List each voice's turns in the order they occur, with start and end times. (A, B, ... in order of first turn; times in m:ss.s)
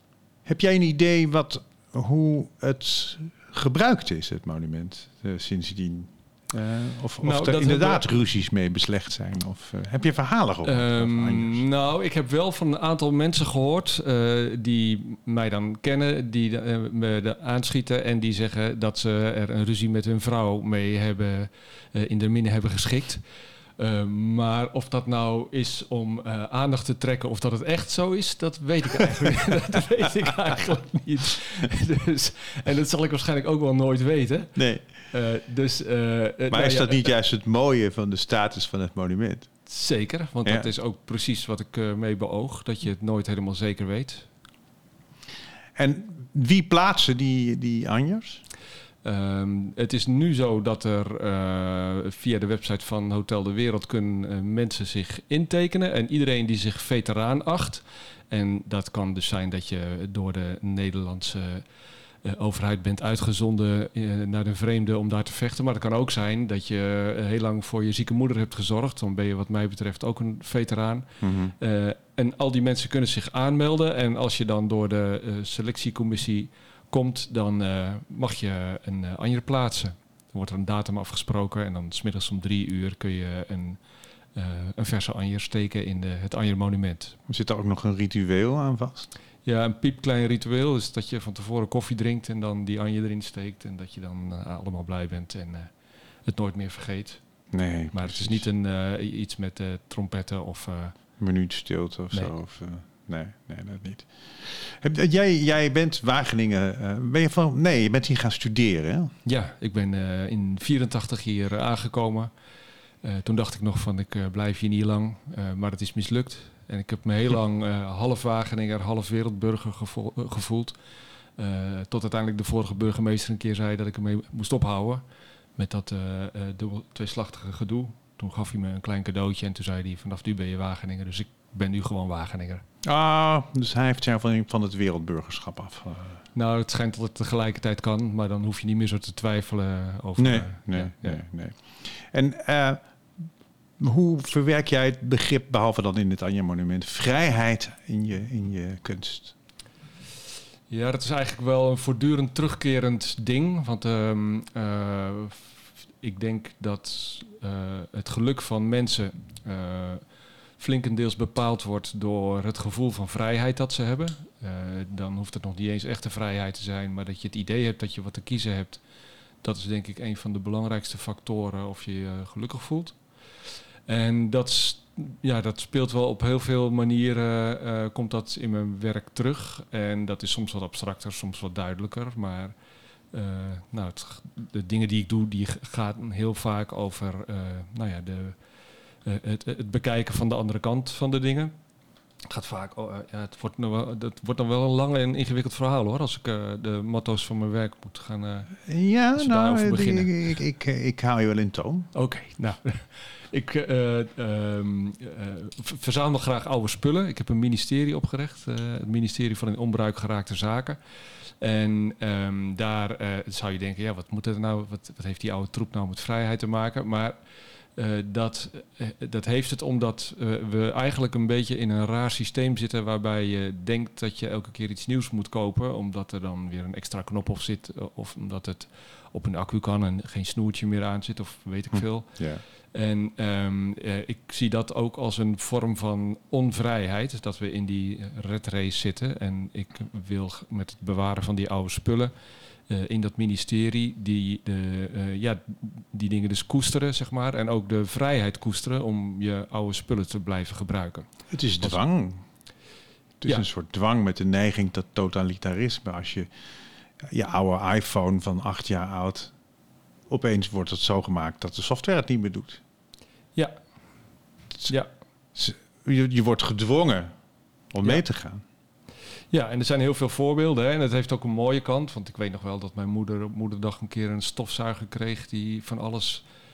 0:00.5-0:11.7 A
0:07.2-0:08.1 B
0:10.6-0:23.2 B
0:23.8-0:37.1 B
0:34.6-0:35.0 A
0:36.5-0:39.7 A
0:39.7-0:44.3 B
0:40.4-0:40.7 A
0:45.8-0:48.4 A
0:49.0-1:01.7 B
1:02.2-1:23.8 B
1:11.2-1:11.6 A
1:24.4-1:27.2 B
1:27.3-1:29.1 A
1:29.4-1:35.7 B
1:36.2-1:37.2 B
1:37.5-1:38.5 A
1:37.9-1:41.0 B
1:41.2-1:49.1 A
1:49.2-1:52.3 B
1:53.0-2:00.8 B
2:01.4-2:05.0 B
2:05.6-2:12.6 B
2:12.8-2:16.2 A
2:16.3-2:21.2 B
2:20.2-2:23.3 A
2:23.8-2:29.3 A
2:30.7-2:40.0 B
2:40.6-2:48.8 B
2:49.4-2:53.0 B
2:53.8-3:02.6 B
3:03.1-3:08.4 B
3:09.0-3:11.6 B
3:12.3-3:20.4 B
3:18.6-3:21.9 A
3:21.9-3:37.2 B
3:37.8-4:02.1 B
3:51.7-3:52.4 A
4:02.7-4:11.1 B
4:11.3-4:12.2 A
4:13.2-4:16.3 A
4:17.1-4:19.3 A
4:20.1-4:22.6 A
4:25.4-4:27.1 A
4:27.7-4:28.4 A
4:29.3-4:36.2 B